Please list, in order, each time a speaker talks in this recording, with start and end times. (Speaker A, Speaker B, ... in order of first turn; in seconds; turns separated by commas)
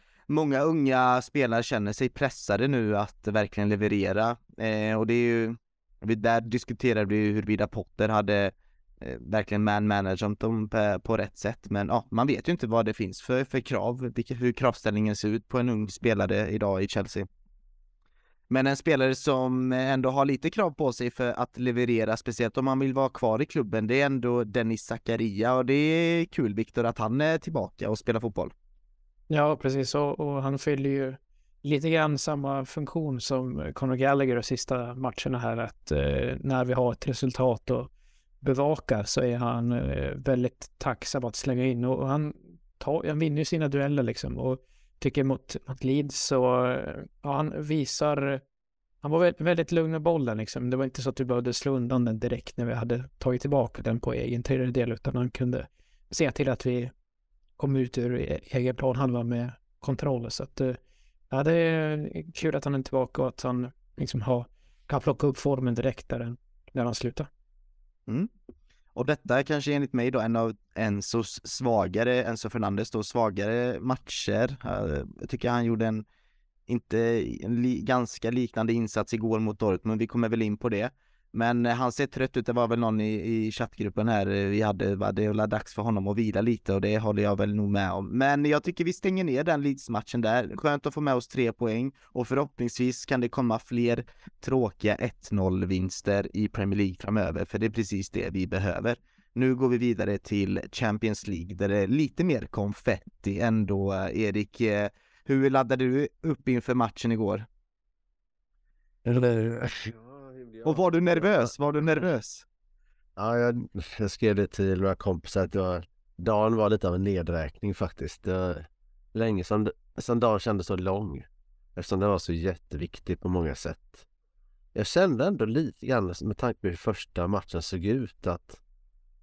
Speaker A: 0.3-17.3, Speaker A: 18.5-28.5, Speaker B: 29.3-37.9, Speaker B: 38.4-48.4, Speaker B: 49.0-56.9, Speaker B: 57.6-60.8, Speaker B: 61.3-67.3, Speaker A: 68.9-76.0, Speaker A: 76.7-107.5, Speaker C: 109.0-111.5, Speaker A: 110.6-112.4, Speaker C: 113.2-124.0, Speaker C: 124.7-128.6